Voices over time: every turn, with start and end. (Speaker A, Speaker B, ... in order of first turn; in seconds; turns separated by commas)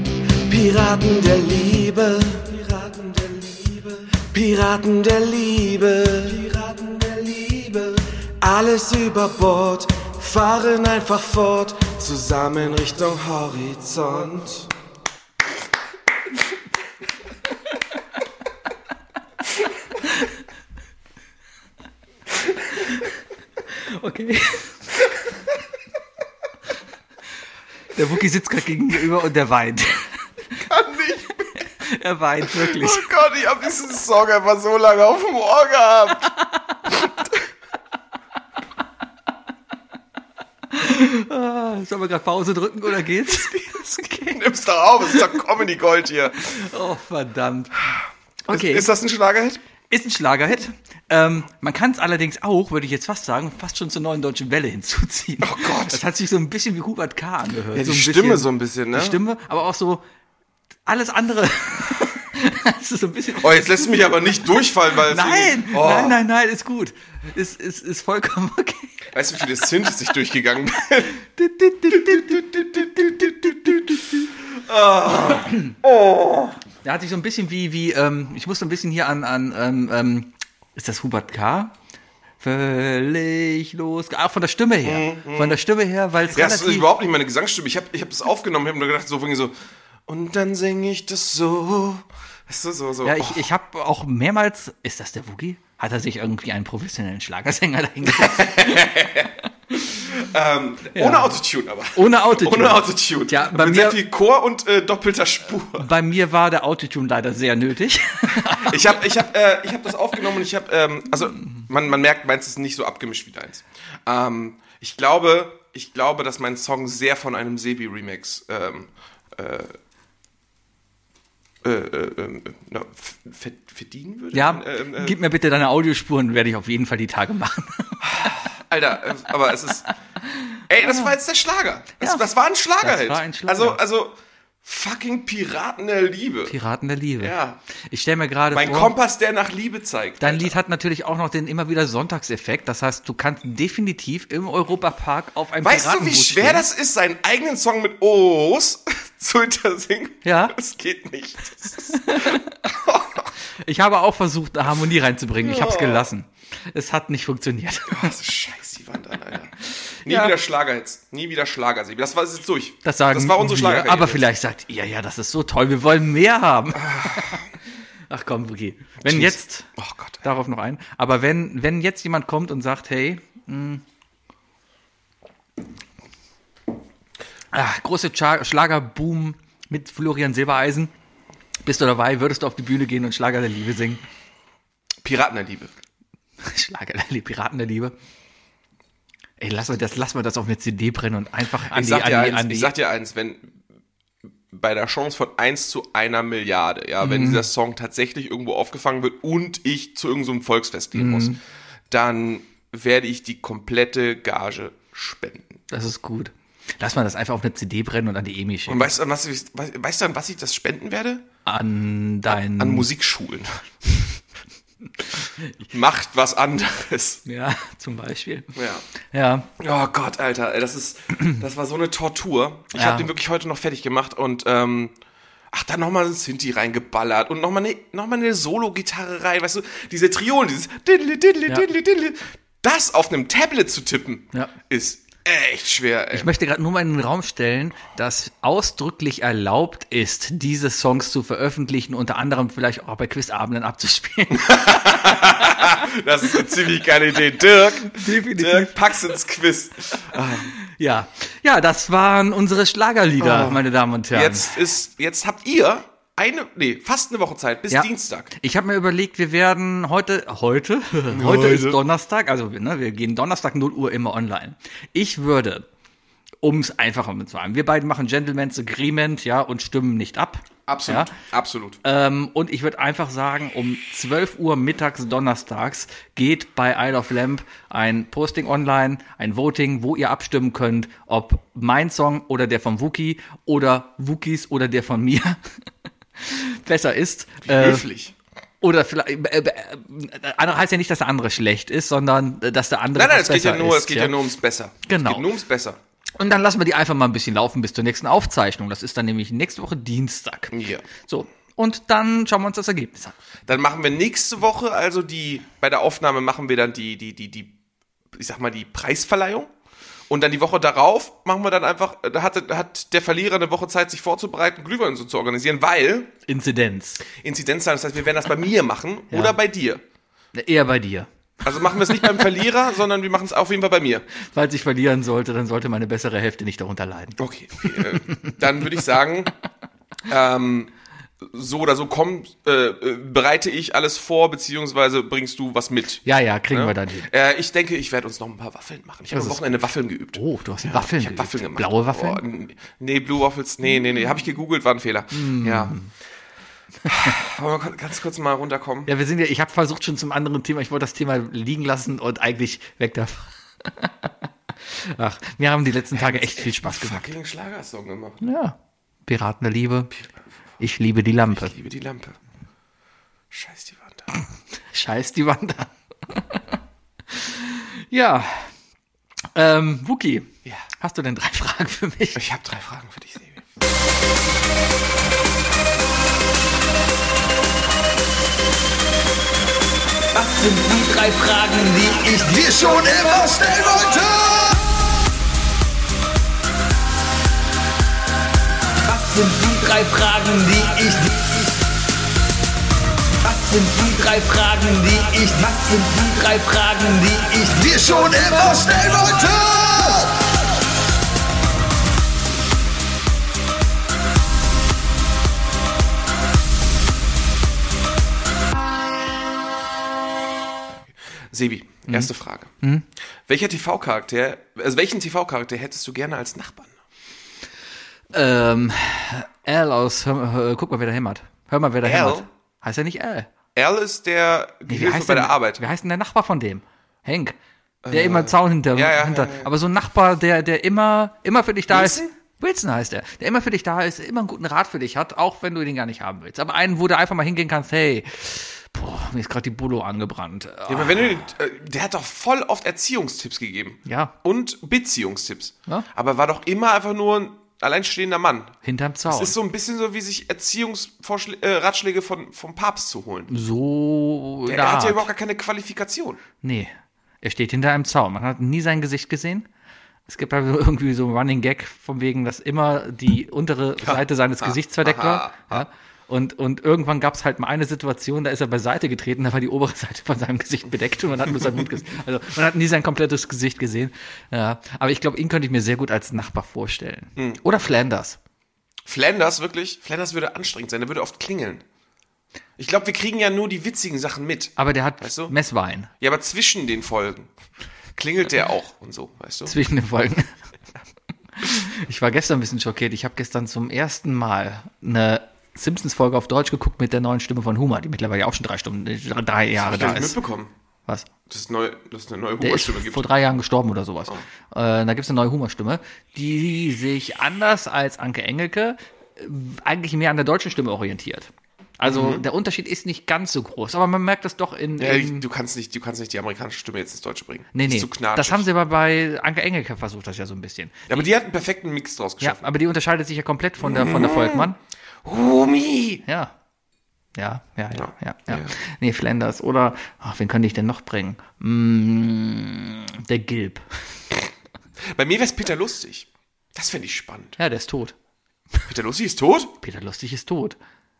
Speaker A: 0.5-14.1, Speaker B: 5.6-6.4, Speaker B: 11.9-12.3, Speaker B: 13.0-14.7, Speaker C: 23.8-24.8, Speaker C: 27.9-30.2, Speaker B: 30.6-31.6, Speaker C: 31.8-33.1, Speaker B: 32.4-36.3, Speaker C: 36.4-36.7, Speaker B: 36.9-37.3, Speaker C: 40.7-44.4, Speaker B: 43.3-46.5, Speaker C: 46.4-47.8, Speaker C: 48.5-48.9, Speaker B: 48.5-49.6, Speaker C: 49.9-60.0, Speaker B: 55.4-56.0, Speaker B: 57.7-59.2, Speaker C: 60.9-64.1, Speaker B: 63.4-66.2, Speaker C: 65.0-69.1, Speaker B: 69.1-71.2, Speaker C: 71.2-72.5, Speaker B: 71.9-76.6, Speaker C: 73.0-73.8, Speaker C: 75.2-75.8, Speaker C: 76.8-81.7, Speaker C: 82.4-86.9, Speaker B: 84.8-85.6, Speaker B: 86.3-89.5, Speaker B: 90.1-93.5, Speaker C: 93.0-99.1, Speaker B: 98.0-99.3, Speaker B: 100.0-105.9, Speaker C: 100.9-101.4, Speaker C: 101.9-104.0, Speaker C: 105.8-109.0, Speaker B: 108.5-119.8, Speaker B: 121.6-125.2, Speaker C: 124.3-128.3, Speaker B: 128.0-129.9, Speaker B: 130.7-136.6, Speaker C: 132.0-132.3, Speaker C: 132.8-133.8, Speaker C: 136.5-137.4, Speaker B: 137.2-137.6, Speaker C: 137.9-138.9, Speaker B: 138.5-140.6, Speaker C: 140.2-146.7, Speaker B: 145.6-153.3, Speaker C: 150.2-150.6, Speaker C: 152.0-152.5, Speaker C: 153.6-158.1, Speaker B: 155.4-156.1, Speaker B: 157.9-164.3, Speaker C: 160.1-160.3, Speaker C: 162.8-167.4, Speaker B: 166.8-167.4, Speaker C: 168.1-169.7, Speaker B: 169.0-170.2, Speaker C: 170.2-173.8, Speaker C: 177.5-180.9, Speaker C: 181.6-184.0, Speaker B: 185.0-185.7, Speaker C: 186.4-187.9, Speaker C: 189.4-192.7, Speaker B: 191.7-193.6, Speaker B: 194.5-201.4, Speaker C: 197.0-197.5, Speaker C: 200.9-201.4, Speaker B: 201.9-205.6, Speaker C: 205.7-208.9, Speaker B: 208.7-211.2, Speaker C: 211.4-212.9, Speaker B: 212.3-213.6, Speaker B: 215.7-217.2, Speaker C: 217.3-218.5, Speaker B: 218.6-218.8, Speaker C: 219.1-219.5, Speaker B: 219.6-224.9, Speaker C: 222.7-223.1, Speaker B: 225.5-236.3, Speaker C: 236.1-245.8, Speaker B: 244.3-250.5, Speaker C: 247.8-248.8, Speaker C: 250.6-254.6, Speaker B: 253.2-258.3, Speaker C: 257.7-265.6, Speaker B: 261.1-261.8, Speaker C: 266.4-271.1, Speaker B: 270.7-271.8, Speaker C: 271.8-285.4, Speaker C: 286.2-287.9, Speaker B: 287.4-288.1, Speaker C: 288.6-294.1, Speaker B: 292.9-295.8, Speaker C: 294.9-295.3, Speaker C: 296.2-303.1, Speaker B: 300.5-300.9, Speaker B: 303.5-307.5, Speaker B: 308.1-309.5, Speaker B: 310.1-316.1, Speaker C: 316.3-317.0, Speaker B: 317.1-319.8, Speaker C: 319.1-319.4, Speaker C: 320.3-322.3, Speaker B: 321.4-324.1, Speaker C: 324.3-328.4, Speaker B: 327.2-329.3, Speaker B: 330.1-345.8, Speaker C: 336.1-337.1, Speaker C: 339.1-339.4, Speaker C: 340.1-342.2, Speaker C: 345.1-345.9, Speaker B: 346.9-348.9, Speaker C: 348.9-354.1, Speaker C: 354.6-357.1, Speaker B: 355.9-358.2, Speaker C: 358.2-358.6, Speaker C: 359.1-359.9, Speaker C: 360.6-361.6, Speaker B: 361.3-362.2, Speaker B: 363.3-364.1, Speaker C: 364.7-366.4, Speaker C: 367.1-368.5, Speaker C: 369.4-372.2, Speaker B: 372.1-373.4, Speaker D: 380.1-384.6, Speaker D: 388.9-391.6, Speaker D: 393.2-400.3, Speaker B: 411.3-412.5, Speaker C: 411.9-412.9, Speaker B: 413.3-416.8, Speaker C: 418.1-423.3, Speaker B: 421.8-422.3, Speaker B: 423.6-425.6, Speaker C: 424.7-427.4, Speaker B: 427.8-429.5, Speaker C: 427.9-441.2, Speaker B: 431.7-432.1, Speaker B: 440.7-448.6, Speaker C: 443.9-444.1, Speaker C: 448.6-449.4, Speaker B: 449.1-453.3, Speaker C: 453.3-455.1, Speaker B: 454.4-456.2, Speaker C: 456.4-459.5, Speaker C: 460.1-478.2, Speaker B: 463.8-465.7, Speaker B: 477.2-477.4, Speaker B: 478.9-481.6, Speaker B: 482.6-485.3, Speaker C: 484.6-485.9, Speaker B: 486.0-487.3, Speaker B: 487.9-489.6, Speaker C: 489.4-490.3, Speaker C: 491.4-500.2, Speaker B: 499.6-500.5, Speaker B: 501.3-503.1, Speaker C: 502.4-515.2, Speaker B: 511.9-512.2, Speaker B: 514.8-518.5, Speaker C: 517.5-521.1, Speaker B: 520.9-522.5, Speaker C: 522.2-524.6, Speaker B: 523.6-524.5, Speaker B: 525.0-526.0, Speaker C: 526.1-526.3, Speaker C: 527.1-533.6, Speaker B: 527.8-528.5, Speaker B: 534.9-537.4, Speaker C: 537.4-537.9, Speaker B: 538.7-539.5, Speaker C: 539.6-540.6